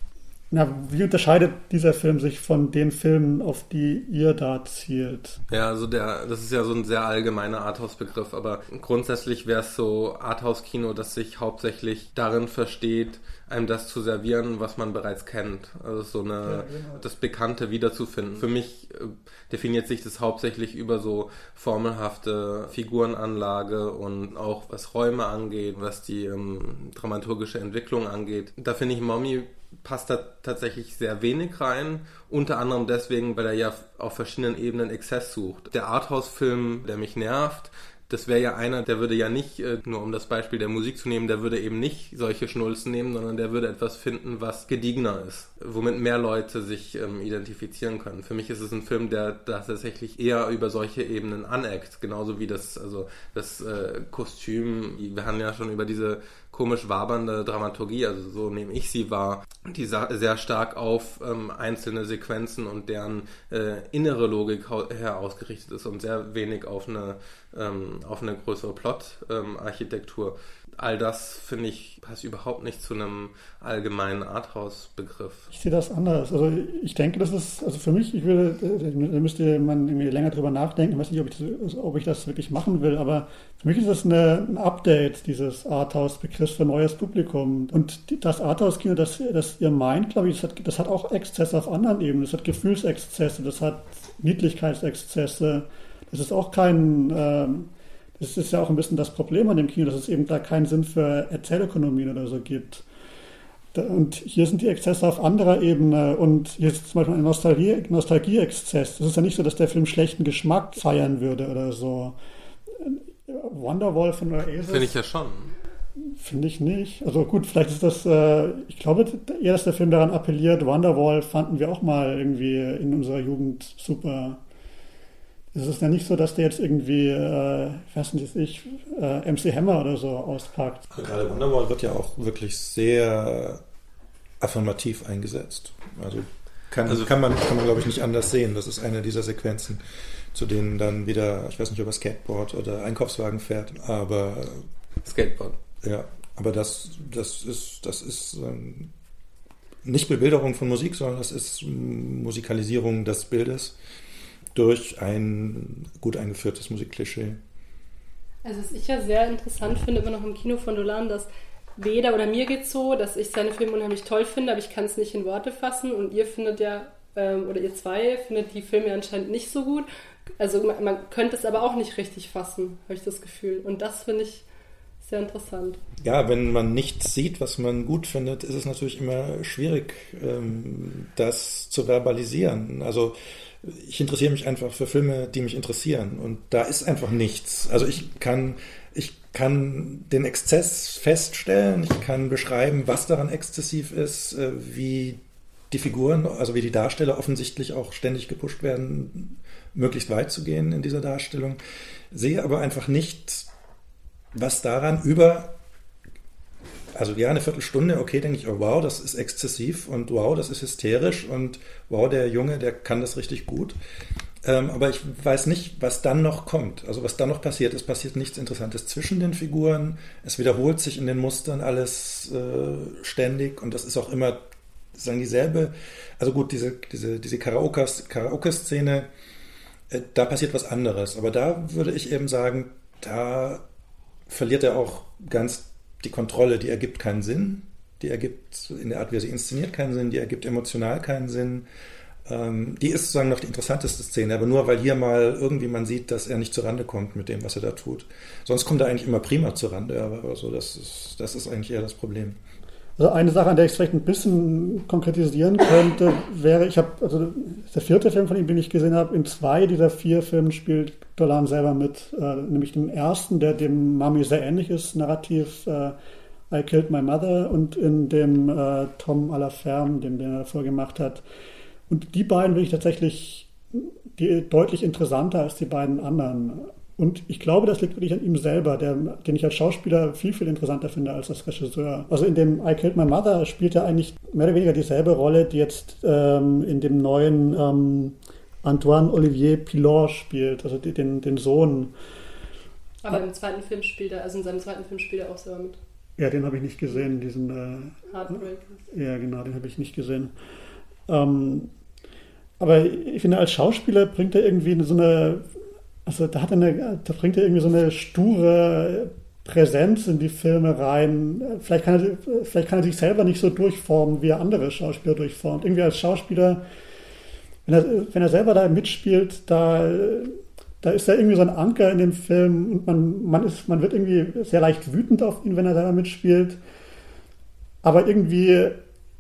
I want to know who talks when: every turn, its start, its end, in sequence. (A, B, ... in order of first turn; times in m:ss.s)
0:00.5-0:05.4 A
0:05.5-1:15.5 B
0:16.4-0:17.0 A
1:15.5-1:42.8 A
1:43.7-1:52.2 A
1:52.7-1:54.9 A
1:54.7-1:55.5 B
1:56.0-2:04.4 A
2:05.5-2:10.8 A
2:10.9-2:13.6 C
2:14.4-2:19.8 C
2:20.3-2:24.6 C
2:25.0-2:25.6 B
2:25.8-2:28.9 C
2:29.8-2:33.8 C
2:34.6-2:37.4 C
2:38.4-2:49.9 D
2:50.4-2:54.4 D
2:55.0-2:55.8 D
2:56.0-3:21.6 C
3:22.1-3:23.5 C
3:24.3-3:25.6 C
3:27.0-3:33.8 C
3:34.4-3:44.4 C
3:45.0-3:49.1 C
3:49.9-3:53.6 C
3:54.3-4:01.7 C
4:02.3-4:12.4 C
4:13.0-4:26.0 A
4:26.5-4:31.2 A
4:31.9-4:51.9 A
4:53.0-4:55.8 D
4:56.2-4:58.1 A
4:58.1-4:58.8 D
4:58.9-5:00.3 A
5:01.1-5:01.7 A
5:02.6-5:05.4 A
5:06.0-5:16.6 A
5:17.7-5:26.6 A
5:27.8-5:28.8 A